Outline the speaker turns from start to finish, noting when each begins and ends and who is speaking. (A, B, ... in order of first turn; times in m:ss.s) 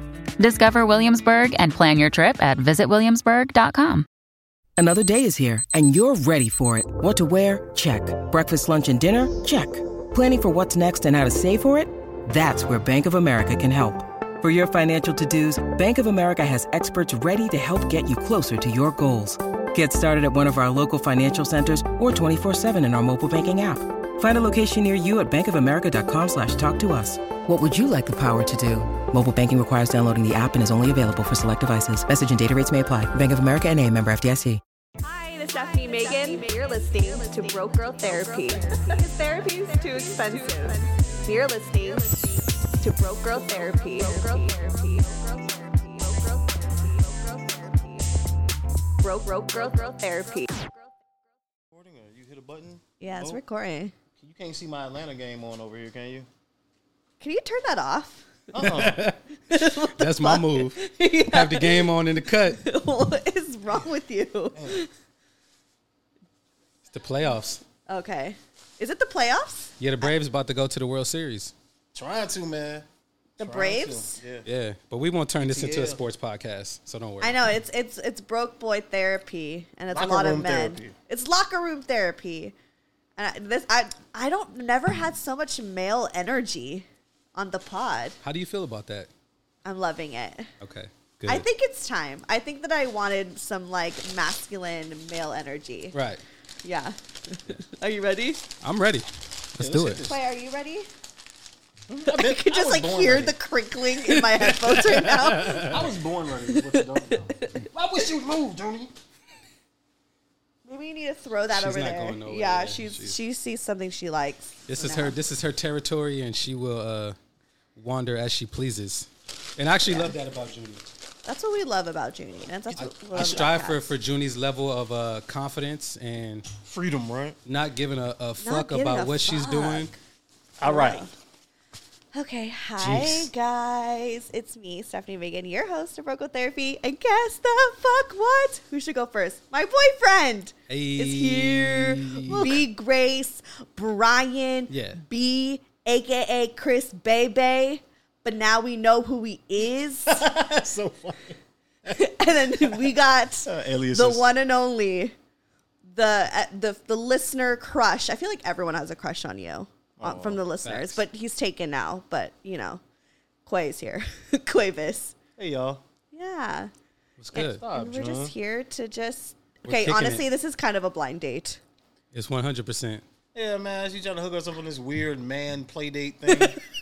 0:00.4-0:04.1 A
0:04.8-0:34.6 B
0:35.0-0:48.1 C
0:49.0-0:50.7 C
0:51.7-0:53.4 D
0:53.0-0:53.9 C
0:54.2-0:56.3 D
0:57.2-0:58.3 C
0:58.5-0:59.1 D
0:58.6-1:02.6 E
0:59.5-1:01.9 C
1:02.6-1:04.9 C
1:06.9-1:07.6 E
1:07.9-1:10.1 C
1:09.8-1:11.5 E
1:11.9-1:12.9 D
1:13.4-1:14.2 C
1:13.4-1:14.4 D
1:14.4-1:17.4 E
1:15.5-1:16.0 D
1:17.2-1:22.5 C
1:19.9-1:21.0 D
1:23.2-1:28.2 C
1:28.2-1:29.1 E
1:29.6-1:30.5 C
1:30.6-1:31.5 E
1:31.3-1:36.0 C
1:35.9-1:36.2 E
1:36.6-1:38.4 C
1:38.6-1:40.0 E
1:39.6-1:40.2 D
1:40.1-1:40.9 C
1:41.9-1:43.4 D
1:42.1-1:45.8 C
1:44.0-1:45.8 E
1:45.5-1:48.9 D
1:46.5-1:47.6 C
1:50.7-1:55.2 C
1:51.5-1:53.2 E
1:54.7-1:57.2 E
1:57.8-2:00.8 E
2:01.3-2:03.9 C
2:02.8-2:06.5 E
2:06.7-2:07.4 D
2:07.5-2:09.9 E
2:08.4-2:10.0 C
2:10.6-2:11.1 D
2:10.6-2:11.1 C
2:12.1-2:30.2 C
2:12.8-2:13.3 D
2:20.7-2:22.6 E
2:22.3-2:22.6 D
2:24.7-2:25.0 E
2:30.1-2:32.0 D
2:31.9-2:35.2 C
2:32.6-2:32.9 D
2:33.4-2:34.3 D
2:35.9-2:42.8 C
2:40.0-2:40.4 D
2:40.6-2:41.0 E
2:43.5-2:45.2 C
2:45.4-2:45.8 D
2:46.1-2:46.7 C
2:47.2-2:48.3 D
2:47.3-2:47.6 E
2:47.3-2:51.6 C
2:49.7-2:50.2 E
2:52.1-2:53.0 E
2:53.4-2:56.6 D